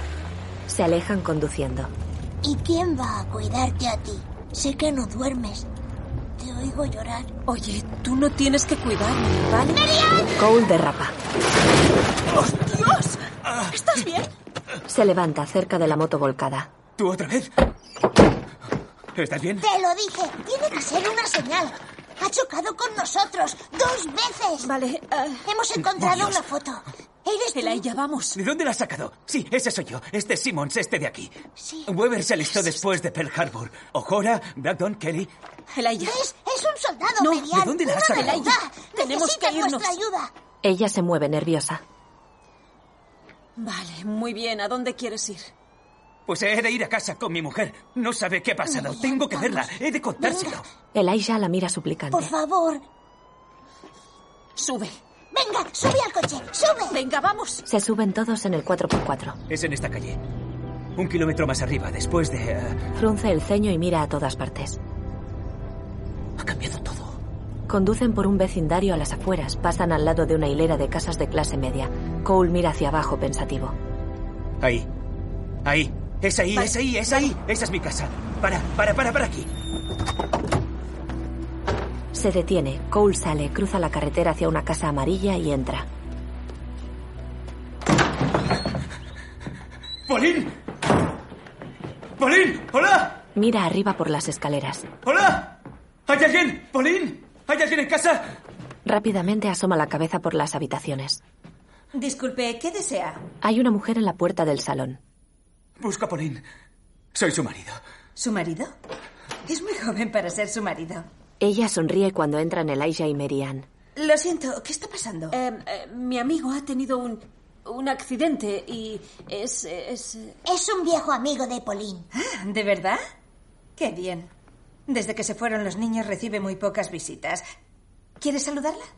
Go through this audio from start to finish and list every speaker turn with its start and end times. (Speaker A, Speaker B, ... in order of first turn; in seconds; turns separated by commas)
Speaker A: 0.7-1.9, Speaker B: 2.4-5.7, Speaker B: 6.4-7.3, Speaker C: 7.5-9.8, Speaker B: 9.7-10.3, Speaker A: 10.4-11.1, Speaker C: 12.3-14.3, Speaker D: 13.4-13.8, Speaker A: 14.9-16.7, Speaker D: 17.0-17.5, Speaker D: 19.1-19.6, Speaker B: 19.6-24.7, Speaker C: 24.6-25.4, Speaker B: 25.4-27.8, Speaker D: 25.9-26.4, Speaker C: 27.5-28.4, Speaker D: 28.3-35.3, Speaker B: 31.6-32.0, Speaker C: 35.7-36.2, Speaker B: 36.0-40.3, Speaker C: 37.2-37.5, Speaker D: 37.5-38.5, Speaker C: 38.1-39.9, Speaker A: 40.6-41.8, Speaker C: 43.6-45.5, Speaker D: 46.3-50.6, Speaker B: 48.7-50.6, Speaker A: 50.9-52.3, Speaker B: 52.1-52.8, Speaker C: 54.5-55.0, Speaker B: 55.3-57.0, Speaker C: 56.9-57.6, Speaker A: 57.6-59.4, Speaker D: 59.5-60.2, Speaker D: 61.0-62.8, Speaker A: 62.9-64.8, Speaker D: 66.4-67.2, Speaker A: 67.7-73.8, Speaker D: 74.6-74.9, Speaker D: 75.6-79.5, Speaker C: 76.5-77.3, Speaker A: 82.1-85.9, Speaker D: 90.0-90.6, Speaker D: 92.2-93.2, Speaker A: 93.3-94.9, Speaker D: 95.0-95.5, Speaker D: 96.1-98.3, Speaker A: 98.8-101.2, Speaker E: 101.9-103.2, Speaker A: 103.4-105.0, Speaker D: 105.8-106.4, Speaker D: 107.1-107.8, Speaker E: 108.2-108.7, Speaker E: 109.4-111.0, Speaker A: 111.4-113.7, Speaker E: 114.0-115.4, Speaker C: 115.3-120.4, Speaker B: 120.5-122.1, Speaker E: 122.1-123.0, Speaker E: 123.8-124.3, Speaker E: 124.9-127.4, Speaker E: 128.2-128.9